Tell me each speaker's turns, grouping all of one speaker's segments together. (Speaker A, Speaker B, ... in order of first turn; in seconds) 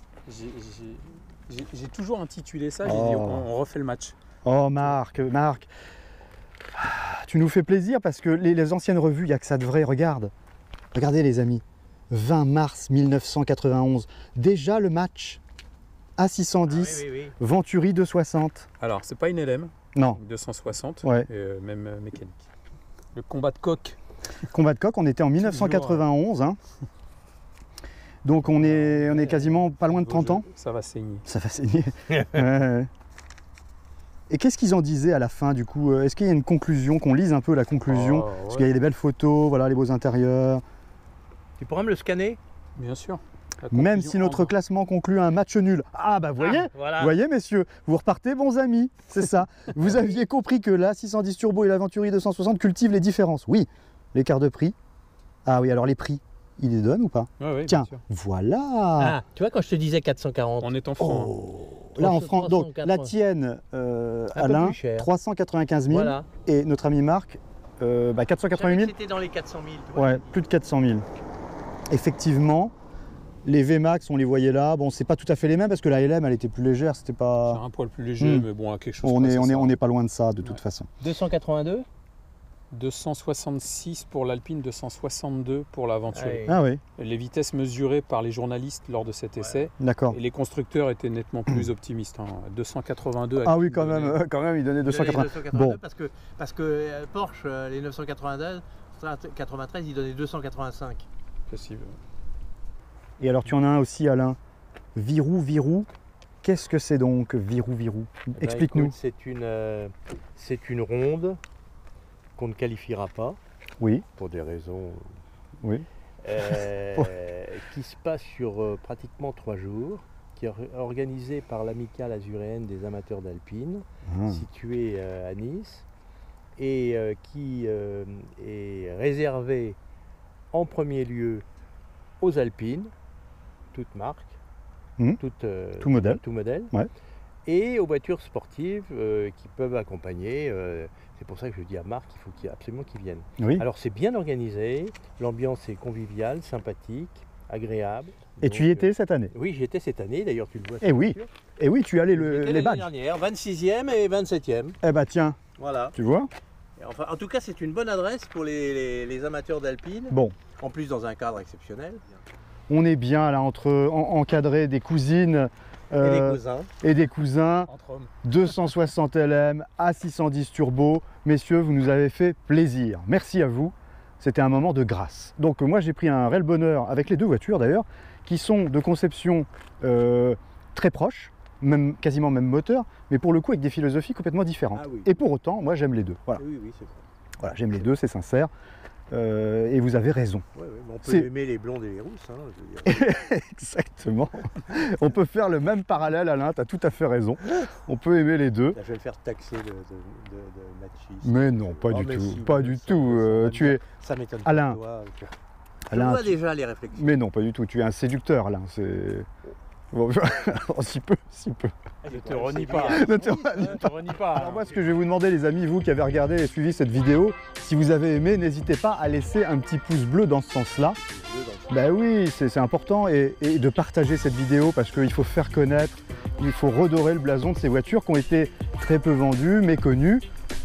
Speaker A: 0.2-4.1, 18.8-22.4, 23.1-24.0, 28.6-31.2, 37.8-38.7, 42.8-44.5, 57.4-58.0, 60.6-61.4, 77.4-79.8, 82.7-94.2, 101.5-102.0, 167.7-168.1, 212.1-214.7
Speaker B: 2.8-3.5, 4.4-5.7, 6.7-10.3, 10.9-15.4, 16.2-18.7, 19.9-20.2, 21.0-21.3, 24.5-26.6, 28.2-30.5, 31.2-32.9, 34.3-40.6, 43.7-54.7, 55.4-59.2, 61.0-68.9, 70.0-71.0, 71.9-72.7, 73.4-77.6, 78.2-78.5, 79.0-80.9, 86.5-86.8, 89.8-90.2, 93.4-95.8, 103.2-104.4, 104.9-105.9, 106.4-108.9, 113.8-114.0, 124.1-124.4, 135.8-136.2, 143.4-143.6, 148.4-149.3, 150.8-152.9, 154.8-155.4, 155.9-156.3, 160.1-160.3, 162.7-167.7, 168.2-186.4, 187.4-188.5, 189.1-190.4, 191.0-191.3, 192.8-198.8, 201.2-203.8, 204.4-204.8, 205.9-206.4, 206.9-209.3, 209.9-211.7, 212.8-221.0, 221.7-230.2
Speaker C: 16.7-17.4, 25.4-26.0, 41.6-42.4, 46.4-47.1, 59.0-60.7, 61.6-63.1, 64.3-65.1, 65.9-66.3, 68.5-70.5, 81.0-81.8, 86.1-86.6, 89.3-89.7, 94.8-101.1, 108.3-111.4, 112.3-113.4, 114.1-115.1, 116.2-125.8, 126.6-129.8, 130.5-131.4, 132.2-132.9, 133.7-134.3, 135.2-136.7, 137.4-151.3, 152.1-154.8, 155.6-155.9, 156.8-162.0, 166.0-166.7, 184.7-185.1, 186.4-187.0, 190.5-193.1, 198.7-205.3, 205.9-207.1, 212.0-214.8, 220.9-221.8